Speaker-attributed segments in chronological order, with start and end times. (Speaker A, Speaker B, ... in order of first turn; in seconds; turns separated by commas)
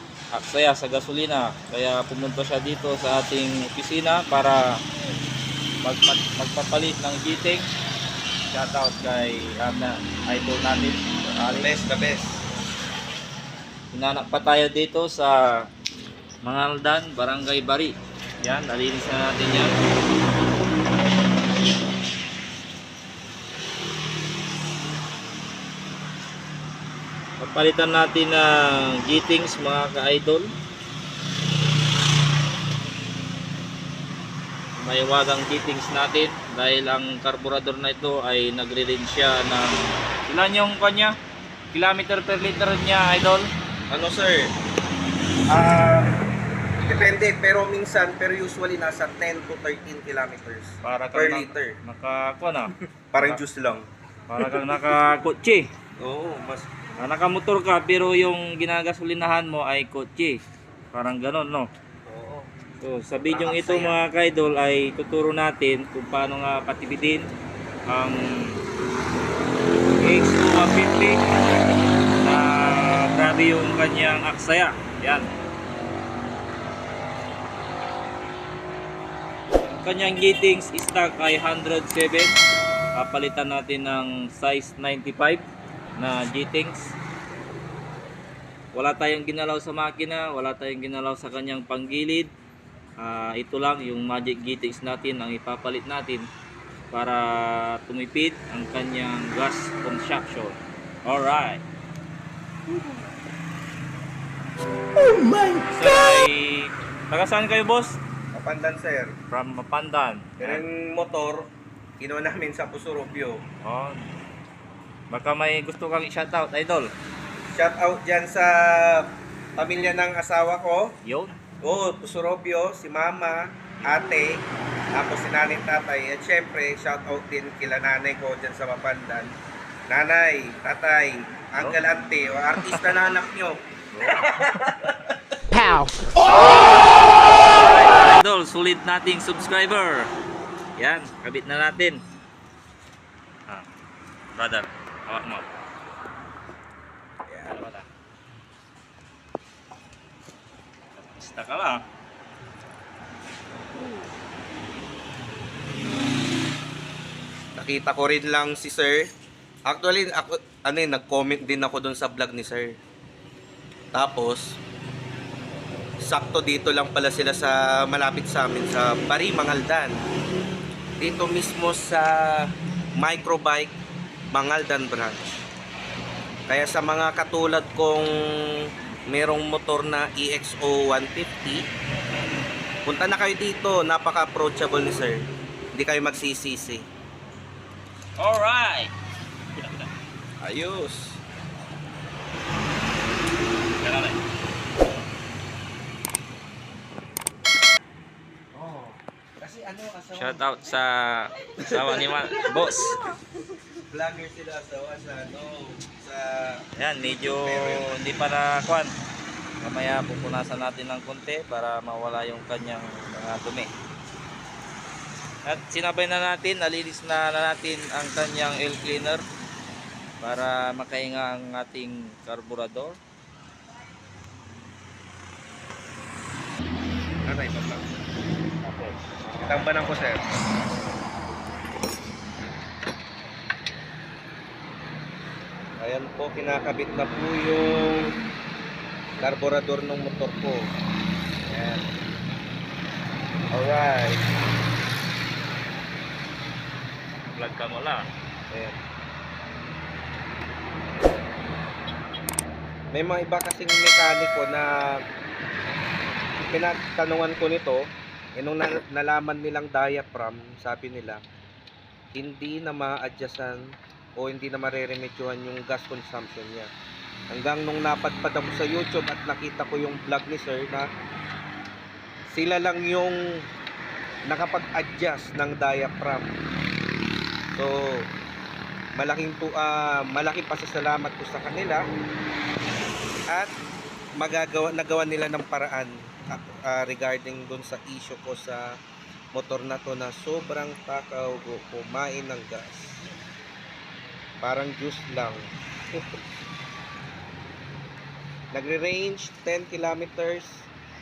Speaker A: 0.3-4.6, Speaker A: 5.8-7.7, Speaker A: 8.5-11.8, Speaker B: 11.6-12.4, Speaker A: 13.9-15.4, Speaker A: 16.4-19.7, Speaker A: 27.4-30.5, Speaker A: 34.8-41.1, Speaker A: 41.7-43.5, Speaker B: 43.9-44.5, Speaker B: 45.5-46.1, Speaker B: 46.8-51.8, Speaker A: 50.8-53.4, Speaker B: 53.1-53.9, Speaker A: 54.3-55.7, Speaker B: 56.0-56.7, Speaker A: 57.0-60.4, Speaker A: 60.9-61.7, Speaker B: 62.1-62.5, Speaker A: 62.8-67.3, Speaker B: 63.2-64.0, Speaker A: 67.9-68.6, Speaker A: 70.0-71.2, Speaker A: 72.2-75.3, Speaker A: 79.8-82.4, Speaker A: 83.0-85.4, Speaker A: 86.0-86.9, Speaker A: 88.7-92.3, Speaker A: 93.0-96.2, Speaker A: 96.9-101.6, Speaker A: 105.3-108.0, Speaker B: 108.3-109.1, Speaker A: 109.3-110.6, Speaker B: 110.4-111.5, Speaker B: 112.0-113.4, Speaker A: 113.6-114.1, Speaker A: 115.1-116.9, Speaker B: 117.5-120.9, Speaker A: 121.0-121.3, Speaker B: 121.6-129.3, Speaker B: 129.9-134.9, Speaker A: 133.9-134.5, Speaker A: 137.5-140.1, Speaker A: 140.8-142.0, Speaker A: 144.3-145.5, Speaker A: 147.4-147.9, Speaker A: 150.9-151.8, Speaker B: 157.6-159.1, Speaker B: 159.7-162.8, Speaker B: 163.9-164.6, Speaker B: 166.0-169.9, Speaker B: 171.0-173.7, Speaker B: 174.3-175.4, Speaker B: 176.5-181.6, Speaker B: 182.8-186.9, Speaker A: 188.2-188.9, Speaker A: 189.5-189.9, Speaker B: 190.4-191.2, Speaker A: 193.8-194.2, Speaker B: 198.5-200.6, Speaker A: 200.1-203.1, Speaker B: 201.6-202.8, Speaker B: 203.9-207.9, Speaker A: 206.8-208.9, Speaker A: 209.6-213.7, Speaker A: 215.4-219.2, Speaker A: 220.2-223.0, Speaker B: 227.2-227.9, Speaker A: 228.6-229.0, Speaker B: 229.3-230.2, Speaker B: 235.8-238.1, Speaker B: 239.2-240.7, Speaker B: 241.4-241.9, Speaker B: 243.5-244.2, Speaker A: 247.3-248.1, Speaker B: 248.5-248.8, Speaker B: 252.9-255.0, Speaker B: 256.4-261.2, Speaker B: 262.1-266.7, Speaker B: 267.3-270.9, Speaker B: 272.3-273.2, Speaker B: 274.3-276.3, Speaker B: 277.5-278.0, Speaker B: 278.9-281.8, Speaker B: 284.2-288.6, Speaker B: 289.3-293.0, Speaker B: 294.4-296.2, Speaker B: 298.5-300.7